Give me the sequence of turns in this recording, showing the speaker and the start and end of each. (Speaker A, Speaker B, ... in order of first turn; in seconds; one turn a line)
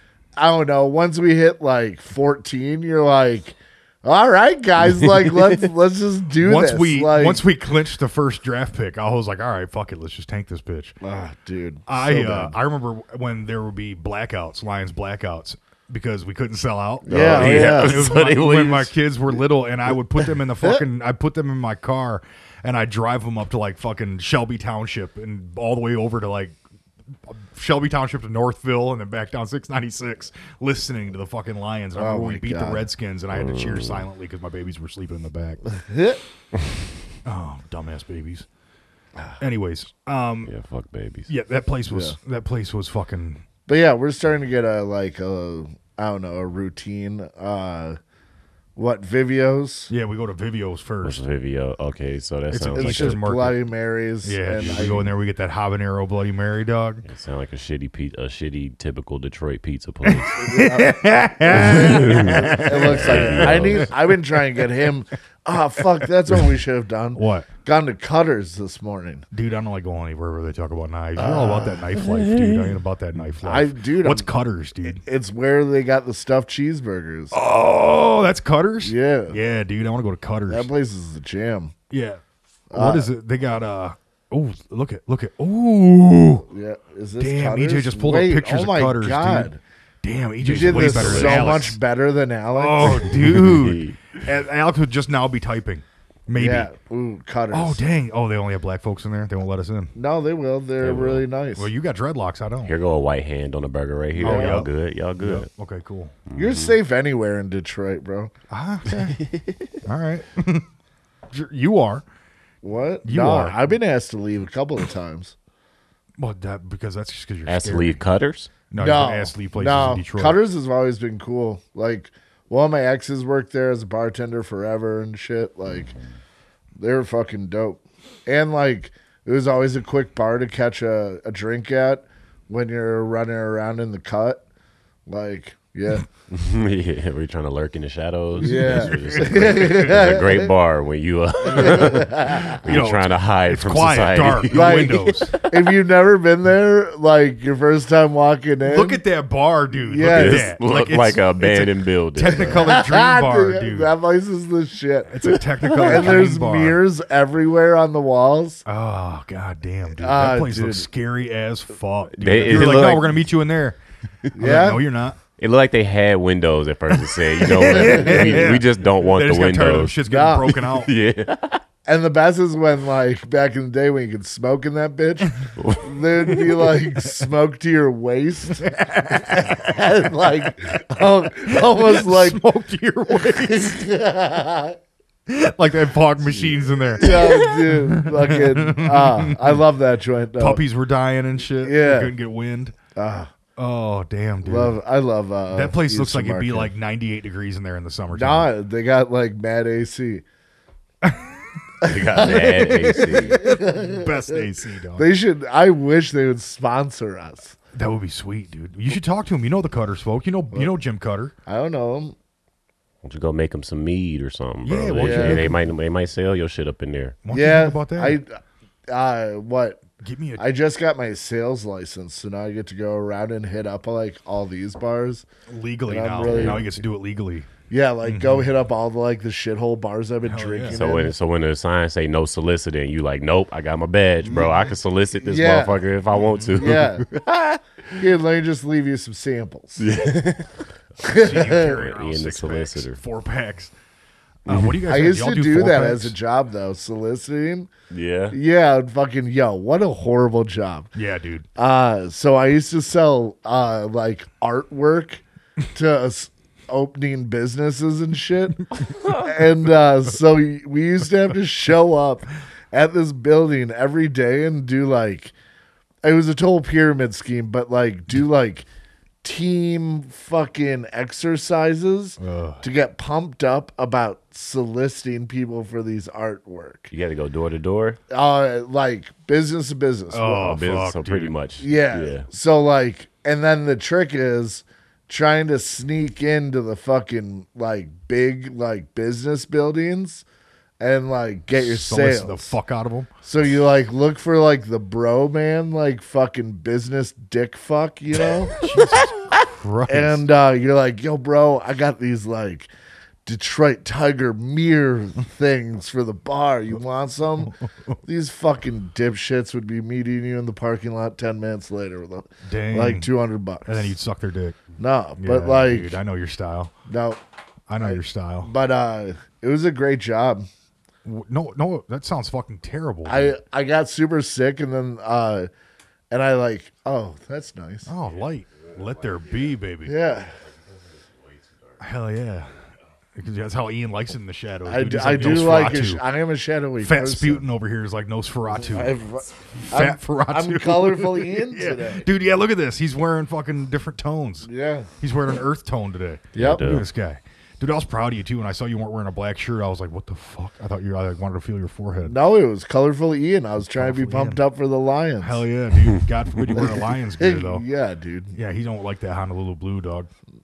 Speaker A: 0.4-7.4
Speaker B: 5.0-5.5
Speaker C: 6.4-10.9
Speaker A: 11.0-12.6
Speaker C: 11.9-26.6
Speaker A: 17.0-18.0
Speaker B: 17.1-18.9
Speaker C: 27.3-35.6
Speaker A: 31.9-32.9
Speaker B: 33.3-34.0
Speaker A: 35.7-36.2
Speaker C: 37.2-38.5
Speaker C: 39.4-40.5
Speaker B: 40.5-41.3
Speaker C: 41.3-43.4
Speaker A: 41.9-42.1
Speaker A: 43.7-48.0
Speaker A: 48.8-49.9
Speaker C: 49.9-51.2
Speaker B: 51.0-53.2
Speaker C: 52.5-53.6
Speaker A: 52.6-55.1
Speaker C: 54.2-57.0
Speaker B: 57.0-60.6
Speaker C: 60.0-63.9
Speaker A: 60.4-69.2
Speaker B: 61.5-63.9
Speaker C: 67.1-67.5
Speaker C: 69.3-75.0
Speaker A: 71.2-72.0
Speaker A: 73.4-74.3
Speaker A: 74.8-77.3
Speaker C: 77.3-80.7
Speaker A: 78.8-79.4
Speaker A: 80.5-81.7
Speaker C: 81.9-82.2
Speaker A: 82.7-83.1
Speaker C: 82.7-86.4
Speaker A: 86.5-89.6
Speaker C: 87.2-89.5
Speaker C: 90.0-91.8
Speaker A: 90.4-93.2
Speaker B: 90.4-91.5
Speaker C: 92.5-96.7
Speaker B: 93.0-94.0
Speaker A: 96.3-97.8
Speaker C: 97.5-99.9
Speaker A: 99.9-101.7
Speaker B: 100.8-101.2
Speaker C: 101.6-102.7
Speaker B: 102.6-105.5
Speaker A: 104.2-104.6
Speaker C: 104.2-106.2
Speaker B: 106.3-106.7
Speaker A: 106.3-108.3
Speaker C: 108.5-109.2
Speaker B: 108.9-109.5
Speaker C: 109.8-110.7
Speaker C: 111.3-112.0
Speaker A: 112.6-115.3
Speaker C: 113.0-113.6
Speaker C: 116.2-118.0
Speaker B: 117.5-118.5
Speaker C: 118.7-120.4
Speaker A: 118.8-125.9
Speaker A: 126.8-134.4
Speaker A: 135.1-136.1
Speaker B: 136.3-145.5
Speaker A: 138.4-140.5
Speaker C: 138.4-139.5
Speaker C: 141.4-145.3
Speaker A: 141.5-142.6
Speaker A: 144.5-149.0
Speaker C: 148.6-153.9
Speaker A: 149.8-150.5
Speaker B: 150.0-152.6
Speaker A: 152.3-158.6
Speaker C: 155.1-156.8
Speaker B: 155.6-156.1
Speaker C: 158.6-163.8
Speaker A: 159.9-160.9
Speaker B: 162.2-163.2
Speaker A: 164.3-164.8
Speaker C: 164.3-165.2
Speaker B: 165.4-170.0
Speaker C: 167.4-170.9
Speaker A: 167.6-168.5
Speaker A: 170.1-170.6
Speaker B: 170.5-171.6
Speaker A: 171.8-182.4
Speaker B: 175.6-176.5
Speaker C: 178.5-179.8
Speaker C: 181.3-183.8
Speaker A: 183.1-184.8
Speaker C: 185.3-189.6
Speaker A: 186.9-190.6
Speaker C: 190.4-192.8
Speaker A: 191.6-192.1
Speaker A: 192.9-193.3
Speaker C: 193.6-194.8
Speaker A: 194.4-196.7
Speaker C: 195.5-198.5
Speaker A: 198.1-200.2
Speaker C: 201.0-201.3
Speaker B: 201.8-203.4
Speaker A: 201.8-207.6
Speaker C: 202.3-205.1
Speaker C: 207.7-211.3
Speaker A: 211.4-212.2
Speaker B: 213.0-217.2
Speaker C: 214.6-215.6
Speaker A: 214.9-215.5
Speaker C: 217.2-218.2
Speaker A: 217.3-219.8
Speaker C: 220.0-220.4
Speaker A: 220.4-225.2
Speaker C: 225.5-227.5
Speaker A: 225.9-226.7
Speaker B: 226.3-226.6
Speaker A: 227.7-231.1
Speaker C: 228.0-228.5
Speaker C: 230.2-230.8
Speaker B: 230.7-238.0
Speaker A: 235.2-235.9
Speaker C: 236.1-236.6
Speaker A: 236.5-237.1
Speaker A: 237.9-239.9
Speaker B: 239.8-240.6
Speaker A: 241.0-241.7
Speaker C: 241.0-243.7
Speaker B: 241.4-243.0
Speaker C: 244.4-246.1
Speaker B: 244.5-244.8
Speaker A: 244.8-247.7
Speaker B: 247.9-248.3
Speaker A: 248.3-250.9
Speaker C: 250.9-251.4
Speaker A: 251.6-265.3
Speaker A: 266.0-268.7
Speaker A: 269.2-276.9
Speaker C: 272.2-272.6
Speaker B: 276.9-278.0
Speaker A: 278.1-280.5
Speaker C: 280.1-281.3
Speaker B: 280.4-282.3
Speaker A: 281.6-290.2
Speaker A: 290.8-292.5
Speaker C: 291.5-293.1
Speaker A: 293.2-298.6
Speaker C: 298.5-300.2
Speaker A: 299.9-302.7
Speaker A: 303.2-307.5
Speaker C: 307.4-308.0
Speaker A: 308.1-313.9
Speaker C: 312.4-313.1
Speaker C: 313.6-314.6
Speaker A: 314.8-316.0
Speaker C: 315.2-316.7
Speaker A: 316.9-317.2
Speaker C: 317.7-318.5
Speaker A: 317.8-320.5
Speaker C: 321.0-323.4
Speaker A: 323.0-325.5
Speaker A: 326.1-327.9
Speaker C: 327.9-329.9
Speaker A: 329.9-330.4
Speaker C: 331.8-332.5
Speaker C: 333.1-336.0
Speaker A: 334.6-337.4
Speaker C: 336.8-339.0
Speaker A: 338.6-342.1
Speaker C: 339.7-344.5
Speaker A: 344.4-344.9
Speaker C: 345.0-352.1
Speaker A: 346.3-346.6
Speaker B: 346.3-346.9
Speaker A: 352.0-355.4
Speaker C: 353.7-354.4
Speaker C: 355.2-357.6
Speaker A: 356.6-358.3
Speaker C: 358.3-360.1